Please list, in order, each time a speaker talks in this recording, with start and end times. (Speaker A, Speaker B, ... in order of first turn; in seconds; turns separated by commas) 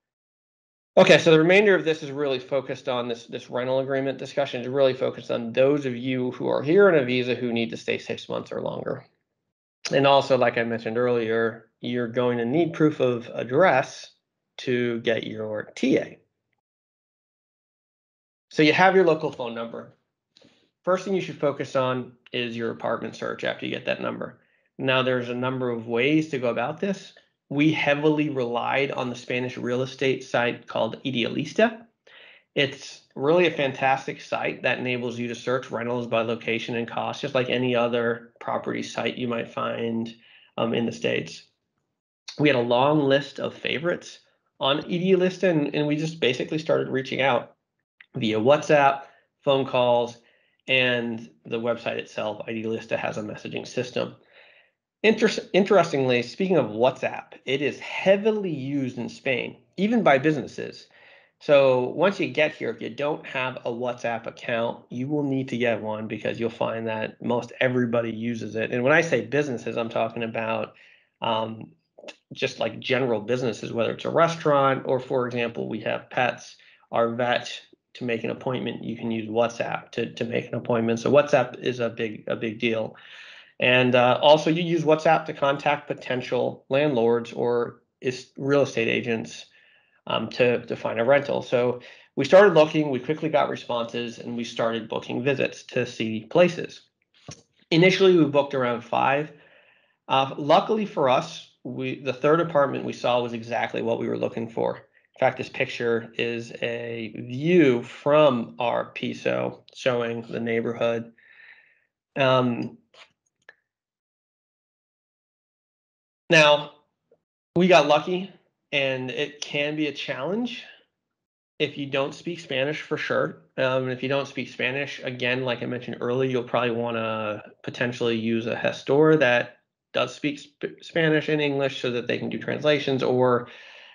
Speaker A: 1.0-9.0, Speaker A: 9.9-16.2, Speaker A: 18.5-19.9, Speaker A: 20.8-31.9, Speaker A: 32.5-41.5, Speaker A: 42.4-47.5, Speaker A: 48.1-54.2, Speaker A: 55.0-71.7, Speaker A: 72.3-83.0, Speaker A: 83.6-89.5, Speaker A: 90.1-96.8, Speaker A: 97.7-99.3, Speaker A: 100.1-111.1, Speaker A: 112.2-112.8, Speaker A: 116.3-116.8, Speaker A: 117.5-120.6, Speaker A: 121.6-133.5